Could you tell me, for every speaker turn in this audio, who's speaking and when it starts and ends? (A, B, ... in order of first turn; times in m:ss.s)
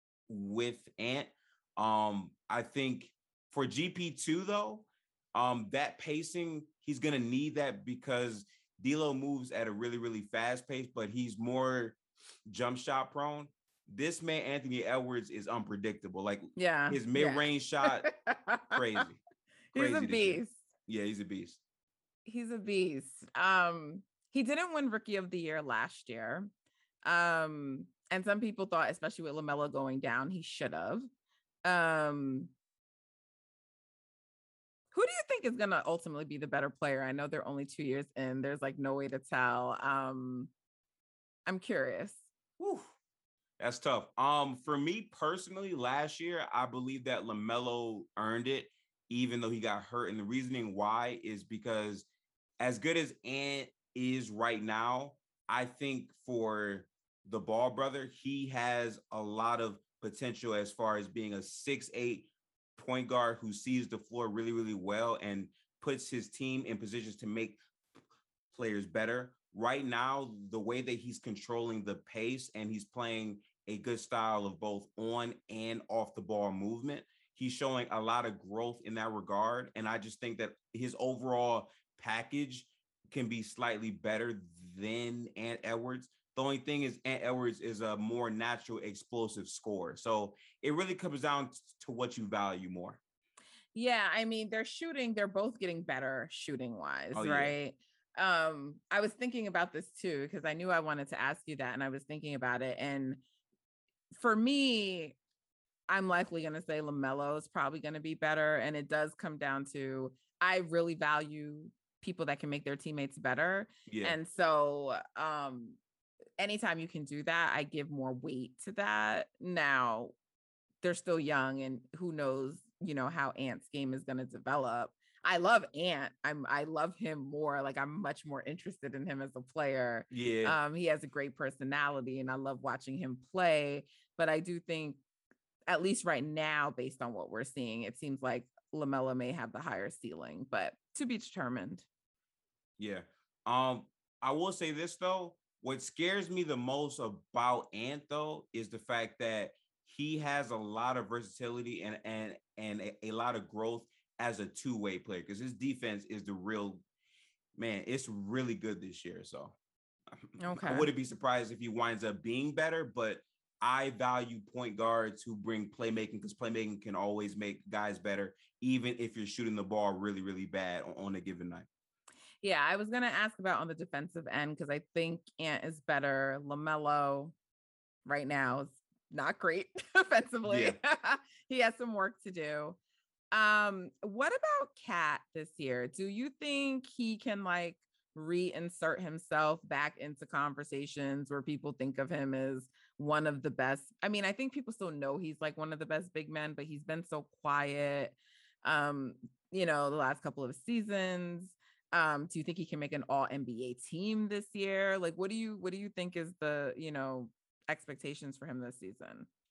0:00.3-0:18.1 A
0:16.6-0:19.0 B
0:18.7-0:19.2 A
0:19.7-0:20.6 B
0:19.7-0:21.6 A
0:22.2-0:26.5 B
0:27.0-0:31.1 B
0:31.6-0:32.5 B
0:34.9-0:40.5 B
0:41.4-0:42.2 B
0:42.6-0:42.9 A
0:43.6-0:52.0 A
0:52.6-1:07.6 A
1:08.5-1:33.0 A
1:33.7-1:43.2 B
1:37.1-1:37.5 A
1:44.1-1:45.2 B
1:45.9-1:55.8 B
1:53.9-1:54.2 A
1:56.4-2:00.1 B
2:00.8-2:15.0 B
2:10.1-2:10.6 A
2:15.7-2:21.8 B
2:22.8-2:36.8 A
2:37.6-2:39.6 A
2:40.1-2:51.7 A
2:40.4-2:40.9 B
2:52.4-2:57.3 B
2:58.0-3:02.8 B
3:00.5-3:00.8 A
3:03.3-3:29.3 B